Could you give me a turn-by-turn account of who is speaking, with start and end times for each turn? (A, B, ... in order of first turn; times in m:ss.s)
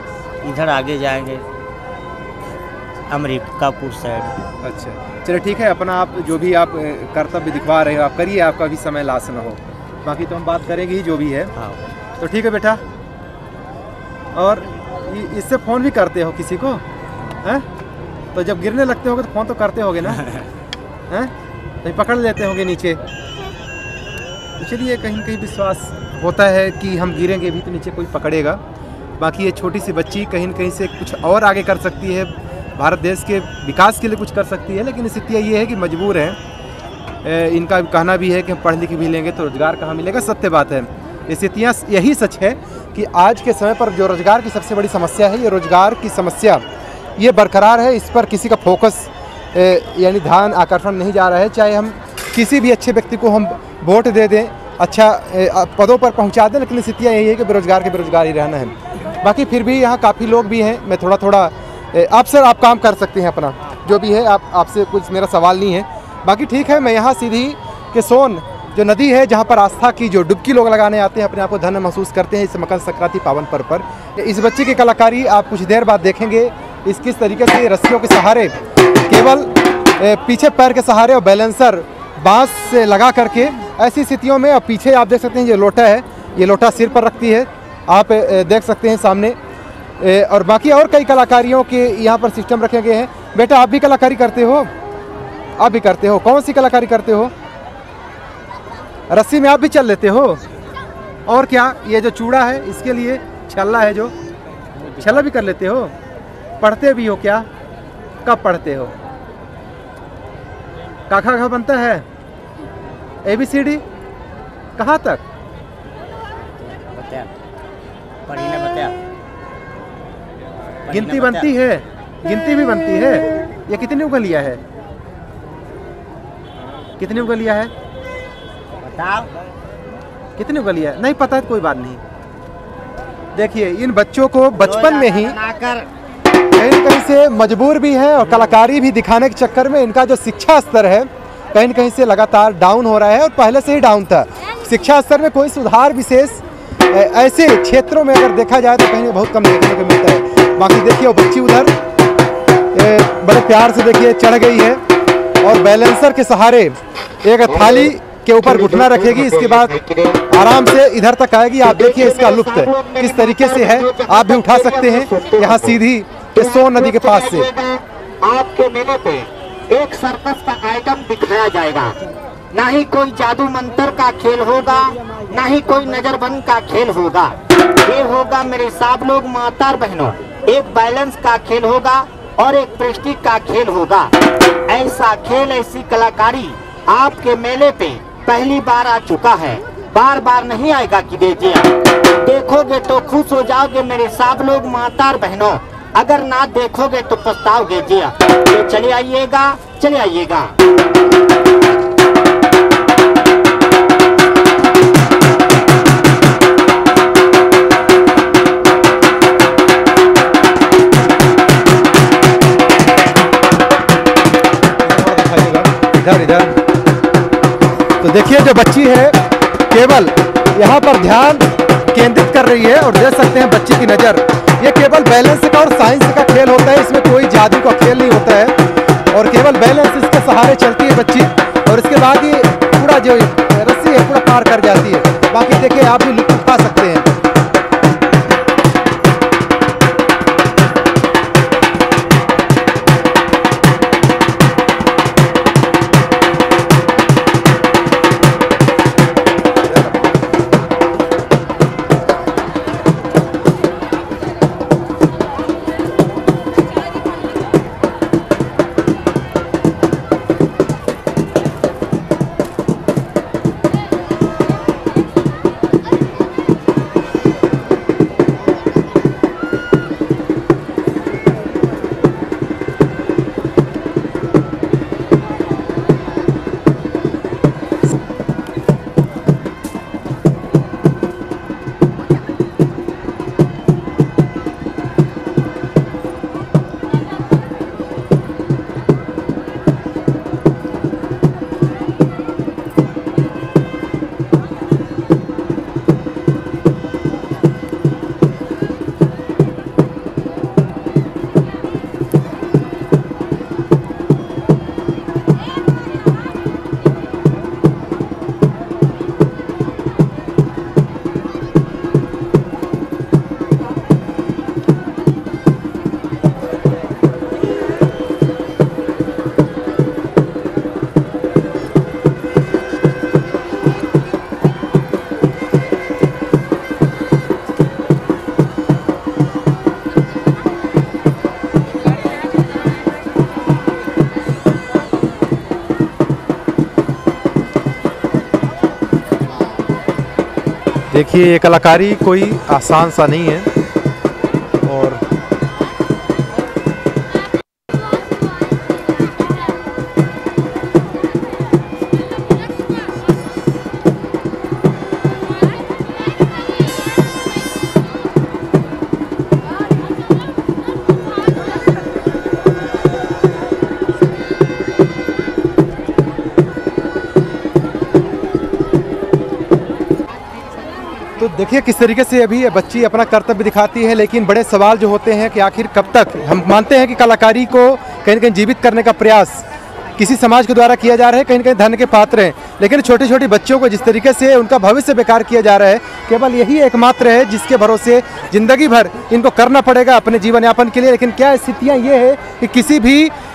0:00.4-0:01.5 A
0:03.1-0:04.4 A
0:04.6-0:11.5 B
0:12.2-0:12.8 B
0:14.3-0:16.8 B
0:18.3-0:20.2 B
0:20.0-0:20.5 A
0:21.8-0:23.0 B
0:24.6-0:28.6 B
0:29.2-0:36.4 B
0:37.2-0:46.6 B
0:47.2-1:18.5 B
1:19.1-1:29.4 B
1:30.0-1:34.7 B
1:35.6-1:37.3 B
1:39.1-1:40.4 B
1:41.3-1:44.1 B
1:44.8-1:45.3 A
1:45.0-1:45.9 B
1:46.6-1:47.5 B
1:48.2-1:48.9 B
1:51.1-1:52.0 B
1:53.2-1:53.8 B
1:54.8-1:55.2 B
1:56.6-1:57.3 A
1:58.3-1:59.0 A
2:00.9-2:01.5 A
2:00.9-2:04.6 B
2:07.0-2:07.7 B
2:08.8-2:09.3 A
2:10.4-2:12.0 B
2:13.4-2:15.4 B
2:14.6-2:15.9 A
2:16.6-2:31.7 B
2:18.2-2:18.6 A
2:32.7-2:34.8 B
2:35.4-2:39.8 B
2:39.4-2:40.2 C
2:40.3-2:47.5 B
2:41.6-2:45.8 C
2:46.4-2:52.0 C
2:52.5-3:04.1 C
3:04.7-3:20.5 C
3:34.8-3:36.6 B
3:38.0-3:39.2 B
3:39.7-3:48.6 B
3:49.1-3:57.1 B
5:40.9-5:43.5 B
5:44.6-5:45.0 B
6:11.2-6:19.4 B
6:20.0-6:33.1 B